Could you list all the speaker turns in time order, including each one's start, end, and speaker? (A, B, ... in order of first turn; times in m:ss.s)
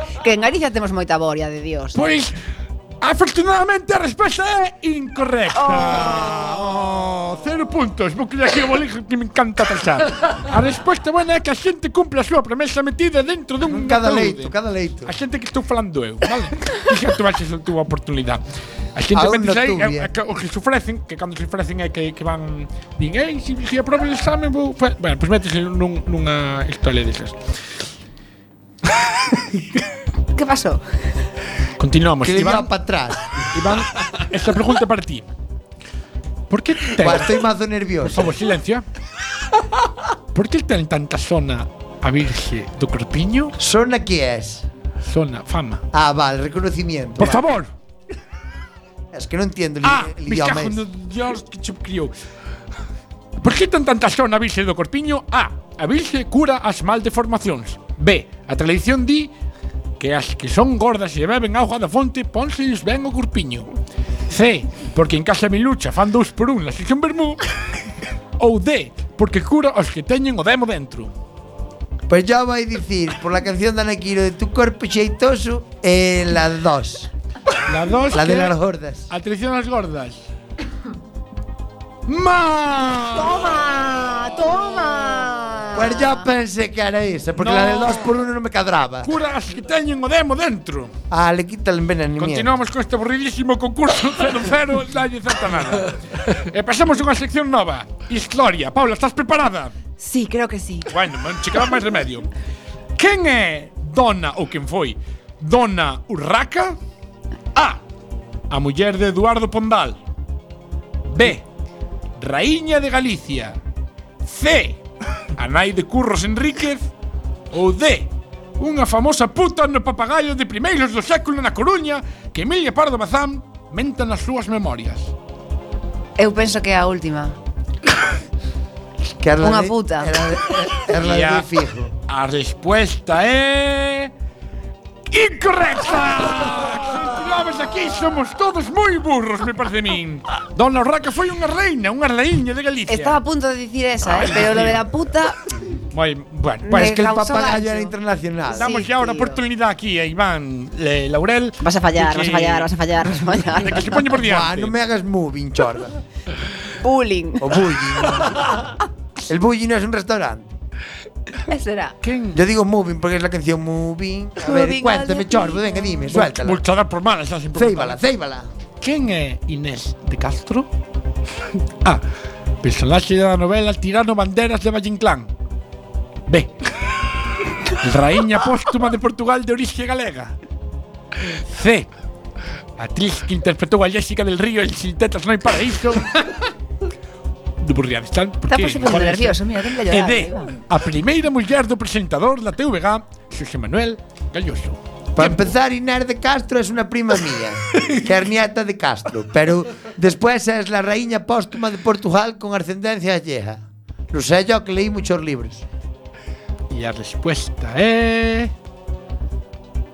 0:00.2-0:02.0 A
0:01.9-0:02.3 B
0:03.0-0:18.4 B
0:05.6-0:06.4 A
0:13.6-0:15.1 C
0:18.9-0:27.4 B
0:19.1-0:20.1 C
0:30.3-0:30.8 A
0:31.8-0:32.7 B
0:32.2-0:33.2 C
0:33.4-0:35.3 B
0:36.5-0:37.4 B
0:36.9-0:38.3 C
0:38.0-0:38.8 B
0:40.3-0:43.6 B
0:43.6-0:44.6 C
0:45.0-0:45.8 B
0:45.9-0:47.4 C
0:47.2-0:47.7 B
0:49.1-0:50.8 C
0:49.8-0:52.1 B
0:53.4-0:59.3 B
1:00.0-1:03.7 B
1:04.3-1:07.4 B
1:08.4-1:11.1 B
1:12.1-1:17.1 C
1:17.6-1:18.6 B
1:18.1-1:19.1 C
1:19.1-1:20.2 B
1:22.0-1:23.4 B
1:23.2-1:26.2 A
1:25.7-1:29.1 C
1:27.4-1:28.1 B
1:29.0-1:30.9 B
1:31.1-1:32.5 C
1:32.2-1:39.7 B
1:40.0-1:40.9 A
1:40.9-1:42.3 B
1:43.0-1:46.8 B
1:47.6-1:47.8 B
1:48.5-1:50.0 B
1:51.1-1:51.4 B
1:52.2-1:53.6 B
1:54.2-1:54.8 B
1:55.4-1:56.9 B
1:57.5-2:05.1 B
2:06.2-2:07.4 A
2:09.2-2:11.9 C
2:09.4-2:10.1 A
2:10.9-2:11.5 B
2:12.1-2:14.1 B
2:15.1-2:23.2 B
2:22.9-2:25.4 A
2:24.0-2:24.8 B
2:25.9-2:27.1 B
2:26.6-2:27.9 A
2:26.7-2:28.7 C
2:28.5-2:29.4 A
2:28.5-2:32.7 B
2:31.6-2:34.1 A
2:33.3-2:34.7 B
2:34.1-2:36.0 C
2:36.8-2:37.5 A
2:37.4-2:38.6 C
2:39.3-2:40.5 C
2:41.5-2:42.0 A
2:42.0-2:42.4 B
2:42.3-2:46.6 C
2:44.4-2:46.0 A
2:46.1-2:48.0 B
2:47.6-2:48.5 C
2:48.8-2:50.7 B
2:52.6-2:55.3 B
2:56.3-2:56.5 B
2:57.7-3:00.4 B
3:01.3-3:01.9 B
3:02.8-3:06.4 B
3:07.6-3:15.4 B
3:08.5-3:10.5 A
3:15.1-3:25.6 C
3:26.7-3:28.5 B